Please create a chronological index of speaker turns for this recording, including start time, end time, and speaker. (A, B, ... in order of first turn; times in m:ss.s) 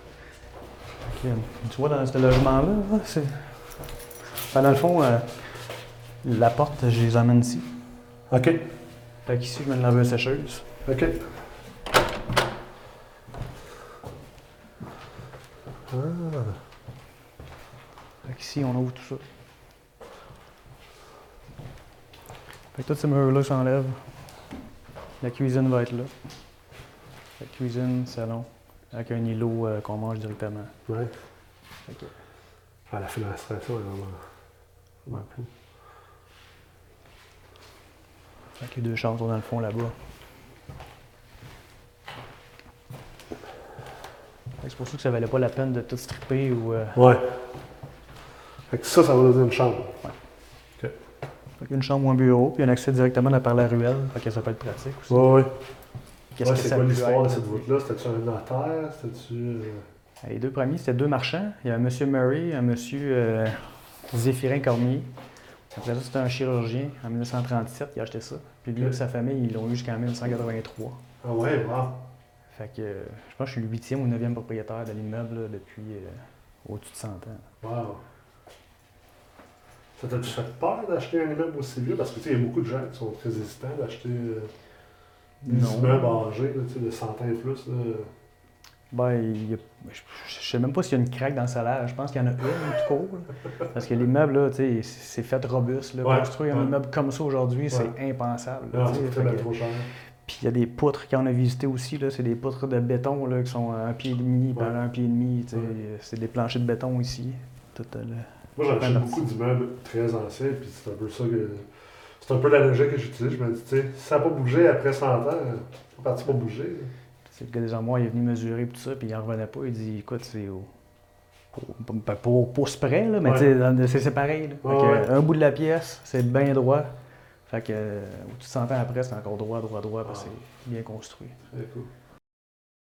0:01.0-0:03.5 A
0:04.5-0:05.4 A
0:06.2-0:07.7 A
0:08.3-0:08.6 B
0:09.3-0:10.7 A
0:10.9-0:11.2 B
0:15.9-0:16.6 B
0:18.2-0:19.2 A
0:22.7-0:24.0 A
0:25.2-0:26.1 A
0:27.4-0:30.8 A
0:31.9-0:32.1 A
0:32.9-0:34.2 B
0:35.0-0:35.5 B
0:38.6-0:40.0 A
0:44.6-0:47.1 A
0:47.0-0:47.2 B
0:48.7-0:50.0 B
0:51.6-0:55.3 A
0:55.1-0:55.5 B
0:56.4-0:57.7 A
0:56.4-0:59.8 B
1:00.2-1:05.1 A
1:05.7-1:11.0 A
1:11.2-1:12.0 B
1:12.5-1:17.5 A
1:17.6-1:18.0 B
1:20.0-1:24.5 B
1:25.4-1:26.2 A
1:25.5-1:28.1 B
1:28.9-1:39.5 A
1:36.0-1:36.7 B
1:38.7-1:39.9 B
1:40.3-1:49.4 A
1:48.6-1:51.7 B
1:52.2-1:56.9 B
1:57.3-2:00.7 A
2:01.5-2:06.9 A
2:03.2-2:03.5 B
2:04.6-2:05.1 B
2:07.5-2:11.5 A
2:11.5-2:11.9 B